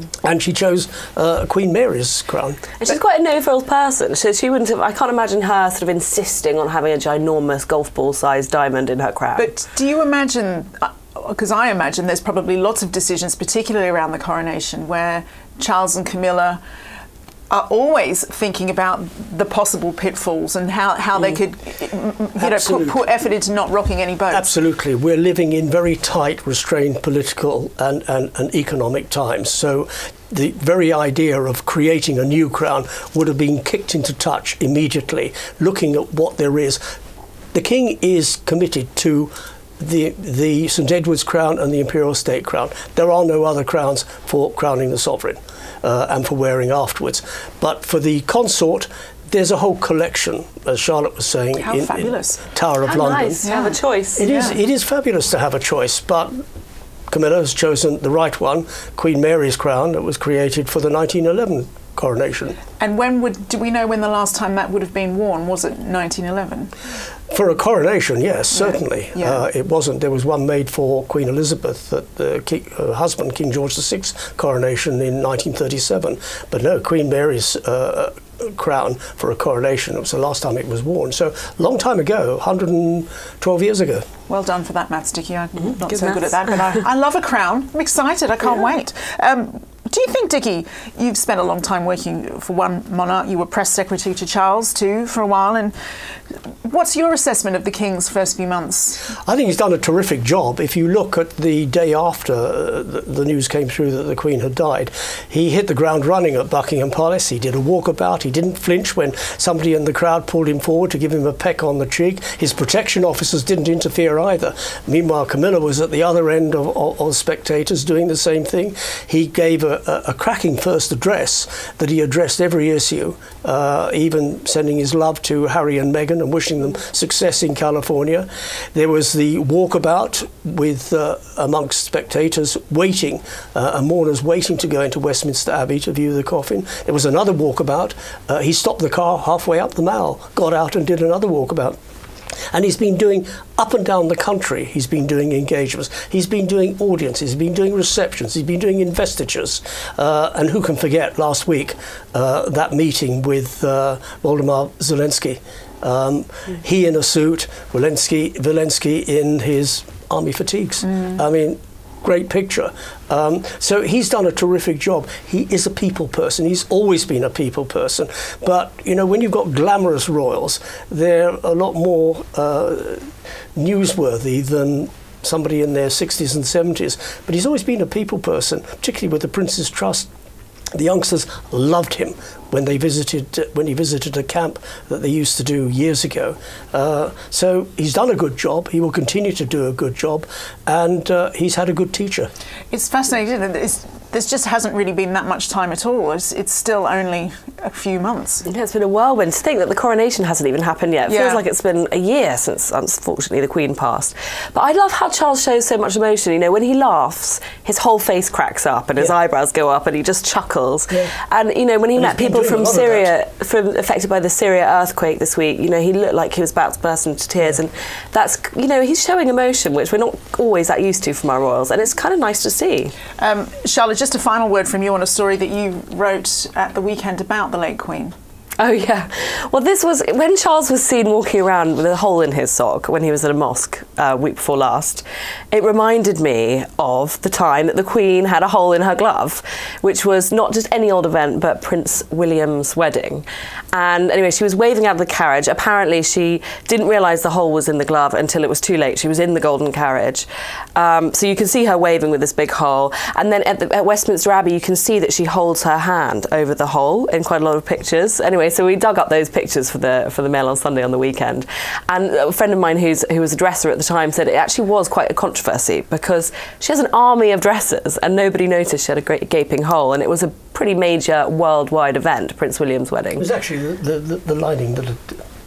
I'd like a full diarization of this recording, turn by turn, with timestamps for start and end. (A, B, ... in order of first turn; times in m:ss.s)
0:00.2-0:02.6 A
0:02.8-0:09.5 B
0:09.4-0:16.6 C
0:17.5-0:24.5 C
0:22.4-0:23.0 A
0:24.3-0:36.9 A
0:37.5-0:53.4 A
0:51.6-0:52.4 C
0:52.8-0:54.2 B
0:53.4-0:54.6 C
0:54.2-0:56.3 A
0:57.1-1:02.6 A
1:02.8-1:06.7 C
1:07.3-1:24.0 A
1:08.5-1:09.4 C
1:24.3-1:35.7 C
1:25.9-1:26.4 B
1:36.6-1:39.1 C
1:39.2-2:21.8 A
2:22.5-3:00.1 A
3:00.7-3:12.3 A
3:12.7-3:18.4 C
3:18.4-3:42.9 B
3:21.1-3:21.4 C
3:31.9-3:33.1 A
3:43.2-3:48.1 C
3:48.6-4:33.2 B
4:33.2-4:35.2 A